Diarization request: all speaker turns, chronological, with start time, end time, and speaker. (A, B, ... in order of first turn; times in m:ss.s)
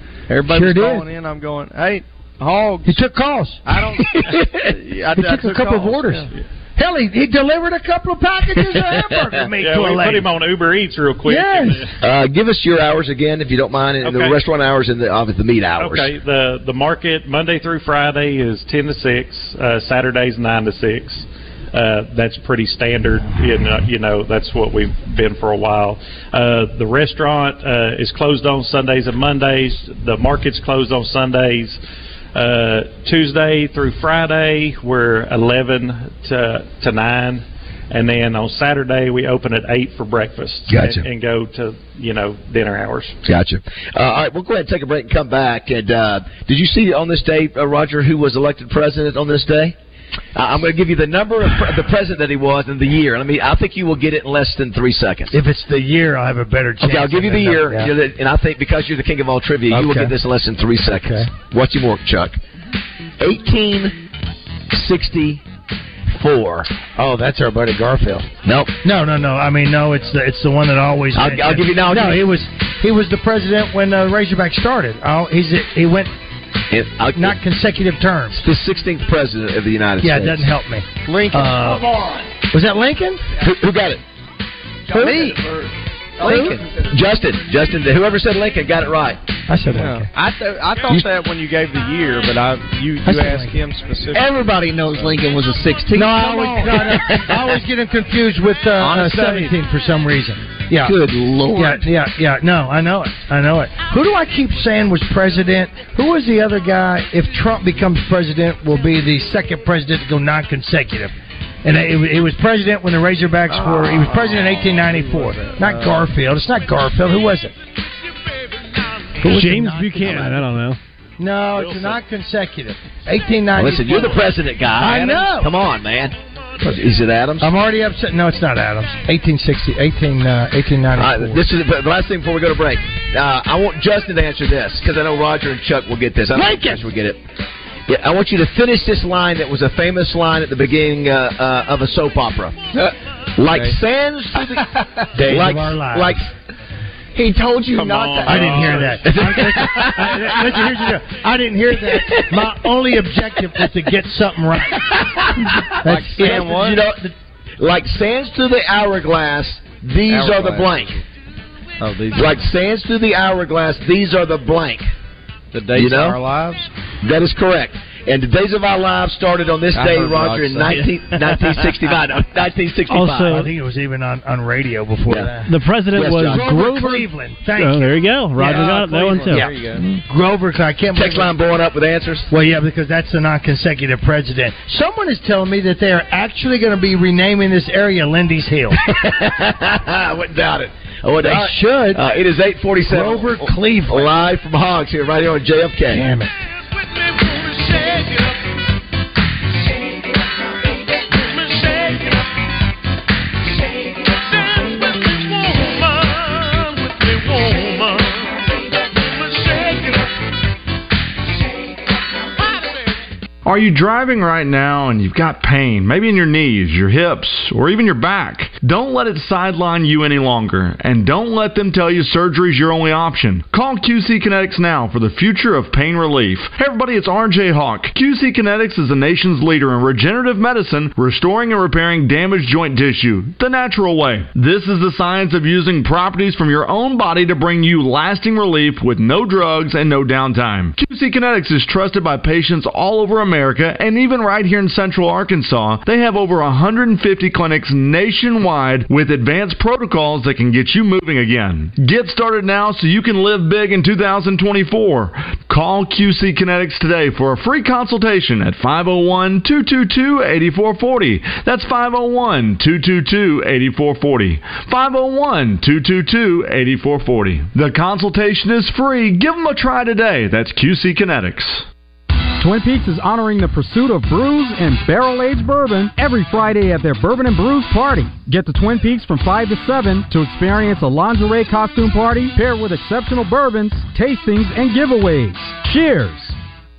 0:00.3-0:03.0 A
0:00.4-0:01.1 B
0:02.8-0:03.8 B
0:03.6-0:06.3 A
0:04.0-0:04.5 C
0:05.1-0:10.3 B
0:08.6-0:09.3 C
0:09.6-0:11.9 D
0:11.2-0:11.9 B
0:12.0-0:16.1 C
0:14.0-0:14.4 D
0:15.8-0:31.8 D
0:32.3-0:43.2 D
0:40.7-0:41.0 C
0:43.2-0:49.8 C
0:50.3-0:55.4 C
0:55.3-0:57.9 B
0:56.8-1:02.4 C
0:59.7-1:00.1 B
1:00.9-1:01.3 B
1:03.2-1:04.0 C
1:04.7-1:05.4 C
1:06.1-1:06.7 C
1:06.9-1:08.3 B
1:08.4-1:08.7 C
1:08.8-1:16.1 B
1:11.1-1:12.2 C
1:16.7-1:17.4 C
1:17.1-1:18.4 B
1:18.3-1:20.5 C
1:20.0-1:21.9 B
1:21.0-1:21.8 A
1:22.5-1:23.2 B
1:23.4-1:24.0 C
1:24.9-1:25.4 B
1:24.9-1:25.6 A
1:26.2-1:26.6 A
1:26.2-1:29.2 C
1:26.2-1:26.6 B
1:29.5-1:30.1 B
1:29.7-1:35.2 A
1:33.0-1:33.6 B
1:35.7-1:37.4 C
1:35.9-1:41.0 B
1:38.8-1:39.5 A
1:40.9-1:41.7 C
1:41.5-1:57.5 B
1:53.5-1:56.1 A
1:59.2-2:00.4 B
1:59.2-2:00.8 E
2:01.2-2:04.2 B
2:01.5-2:02.0 D
2:03.5-2:07.5 C
2:04.8-2:05.5 B
2:07.4-2:11.4 B
2:11.0-2:17.2 C
2:16.3-2:16.8 B
2:17.9-2:22.6 C
2:23.4-2:26.3 C
2:23.5-2:23.8 A
2:25.2-2:26.2 B
2:27.2-2:30.8 C
2:27.7-2:29.2 D
2:28.2-2:34.8 B
2:31.8-2:32.5 C
2:34.9-2:41.0 C
2:35.8-2:36.5 B
2:35.8-2:36.8 A
2:40.1-2:41.0 A
2:41.8-2:42.4 A
2:42.1-2:44.9 C
2:45.5-2:46.7 A
2:45.7-2:46.2 C
2:47.0-2:53.4 C
2:49.7-2:51.8 A
2:52.9-2:53.5 E
2:53.2-2:55.5 B
2:55.4-2:59.5 E
2:55.9-2:56.5 C
2:56.3-2:58.8 B
2:58.4-2:59.8 A
2:59.3-3:01.3 B
3:00.9-3:02.3 C
3:02.3-3:08.8 B
3:08.8-3:16.1 C
3:11.2-3:12.0 B
3:12.9-3:14.1 B
3:15.9-3:16.3 B
3:33.4-4:31.7 F
4:32.4-4:46.4 G